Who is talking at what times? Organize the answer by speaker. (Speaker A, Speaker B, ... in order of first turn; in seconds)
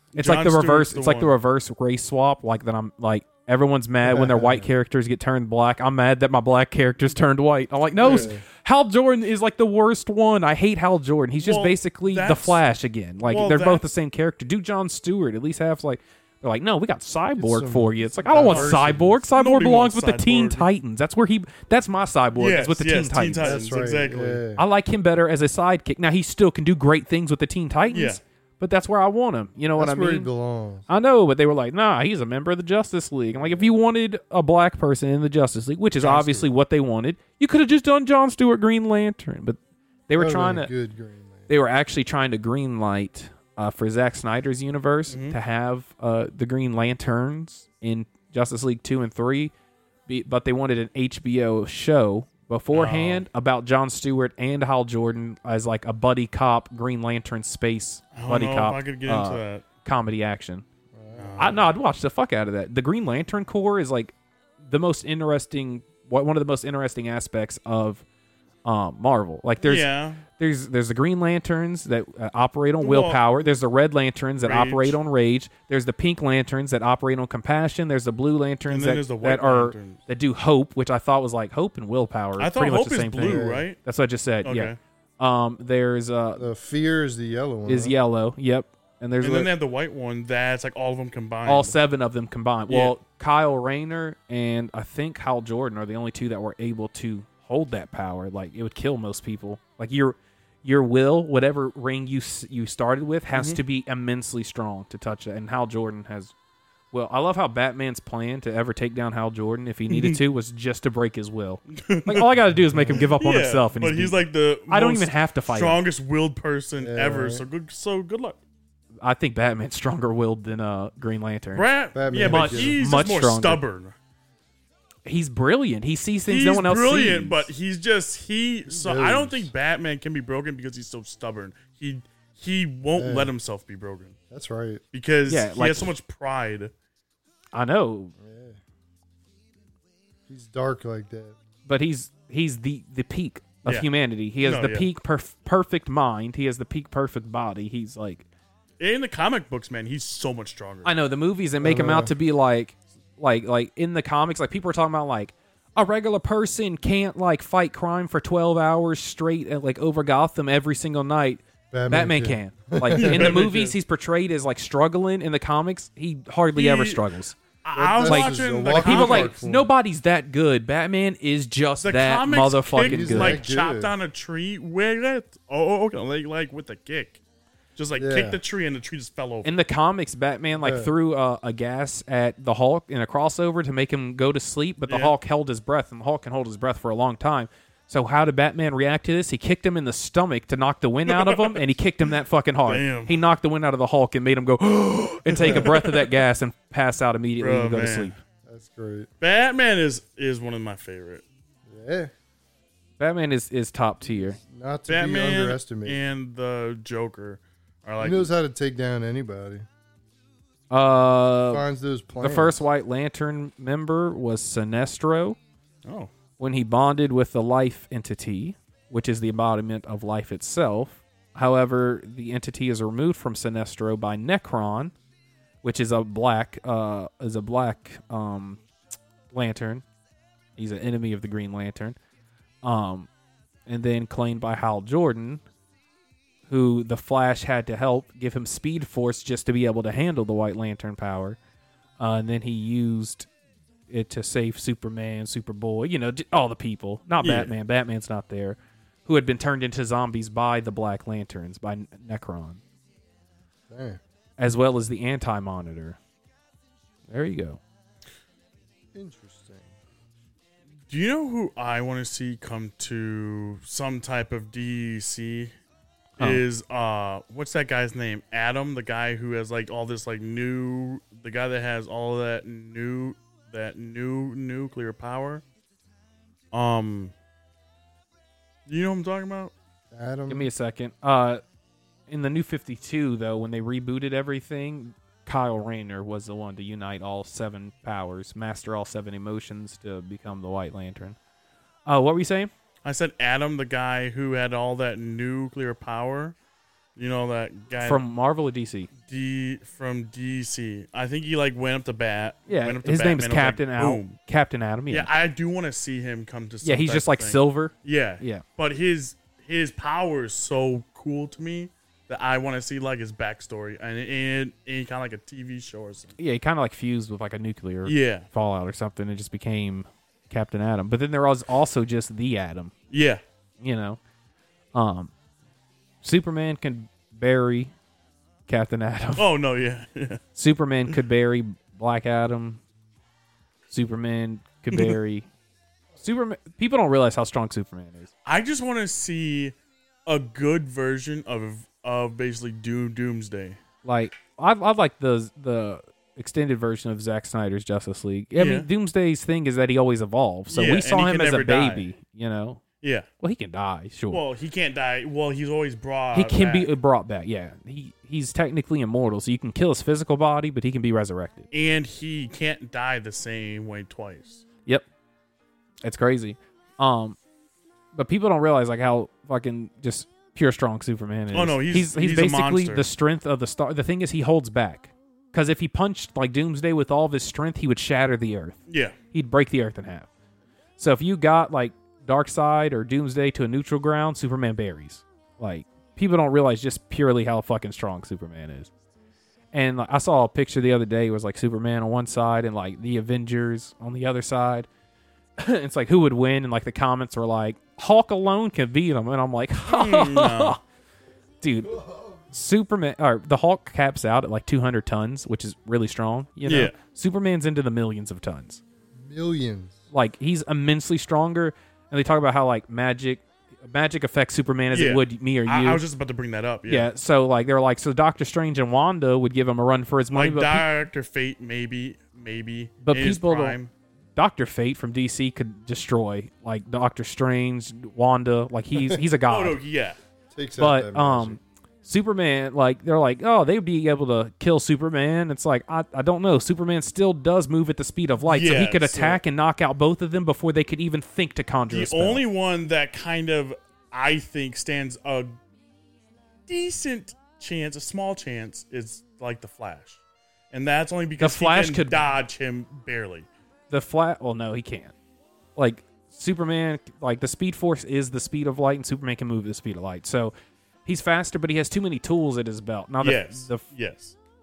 Speaker A: 0.1-1.3, 11.4-12.6, 13.3-13.8, 18.4-18.7, 19.4-20.7, 22.4-24.4, 27.9-28.2, 36.0-36.4, 45.1-45.4, 52.7-53.3, 58.1-59.6, 61.1-61.6, 69.6-70.2, 72.8-73.3, 74.4-75.0, 78.7-80.0, 82.4-83.8, 84.4-84.8, 89.2-91.8, 92.7-93.0, 103.3-103.6, 109.9-110.2, 111.7-112.3, 113.0-118.4, 121.5-124.0, 126.3-134.2, 134.9-136.7, 144.4-144.9, 148.8-150.9, 163.0-163.7, 166.6-167.1, 167.6-169.3, 171.8-177.2, 177.8-179.5, 184.9-185.2, 191.1-191.6, 192.7-193.2, 195.3-196.1, 197.4-198.1, 199.2-201.2, 204.9-208.3, 215.8-216.1, 247.2-247.5, 260.9-265.5, 266.2-275.4, 276.5-277.1, 278.7-279.5, 292.9-296.4, 297.0-298.0, 299.0-304.2, 304.9-316.1, 317.9-318.3, 322.9-323.2, 329.2-330.2, 338.2-339.5, 340.1-343.6, 348.4-348.7, 350.5-351.9, 352.8-353.1, 354.1-356.7, 361.5-364.4, 371.3-372.8, 378.7-378.9, 399.7-400.6, 406.5-406.8, 414.7-416.9, 420.1-423.7, 429.3-430.0, 438.2-439.2, 441.7-445.4, 446.5-450.0, 450.5-453.3, 463.0-464.1
Speaker B: 0.2-23.6, 24.6-30.3, 30.9-40.7, 41.5-49.5, 50.1-60.6, 61.4-68.0, 68.7-86.5, 87.7-89.5, 91.5-106.3, 106.9-115.8, 119.0-121.7, 122.2-123.6, 125.1-127.5, 135.3-135.9, 137.5-138.1, 141.7-148.2, 150.8-167.4, 168.0-173.4, 179.4-198.2, 203.0-204.4, 210.7-211.7, 212.2-215.4, 216.4-224.9, 225.6-228.6, 229.3-229.8, 230.6-232.0, 232.6-233.1, 233.7-235.4, 236.5-241.4, 242.0-243.3, 243.9-252.6, 254.4-256.0, 257.1-257.6, 280.3-281.4, 282.1-291.2, 291.9-292.5, 297.8-298.9, 302.5-305.1, 306.6-308.4, 316.2-322.7, 323.6-324.0, 324.7-325.1, 326.0-327.7, 328.5-329.3, 330.4-332.6, 333.7-335.3, 336.0-338.1, 343.8-352.6, 353.2-354.2, 356.1-361.5, 365.8-367.2, 367.9-378.6, 379.1-380.1, 380.8-388.7, 389.5-394.7, 395.4-400.6, 401.4-408.6, 409.9-415.8, 416.7-420.7, 422.8-423.6, 424.2-429.6, 430.6-442.2, 451.2-452.0, 453.7-454.9, 455.6-460.3, 460.9-463.6
Speaker C: 4.0-4.7, 8.0-8.4, 17.4-19.2, 23.4-24.6, 29.8-30.9, 33.3-33.7, 40.2-41.5, 60.9-61.6, 83.2-83.7, 86.4-88.0, 112.5-113.1, 116.8-117.5, 122.0-122.8, 128.7-129.5, 132.9-133.3, 134.3-134.8, 138.2-138.6, 140.3-141.4, 151.6-152.1, 161.7-163.5, 167.8-169.7, 172.8-173.9, 178.0-178.4, 180.6-180.9, 195.4-195.8, 198.5-199.1, 201.7-202.1, 204.0-206.0, 208.0-209.7, 211.5-212.6, 253.7-254.0, 258.9-259.7, 279.9-280.5, 401.8-402.1, 408.9-409.8, 430.3-431.4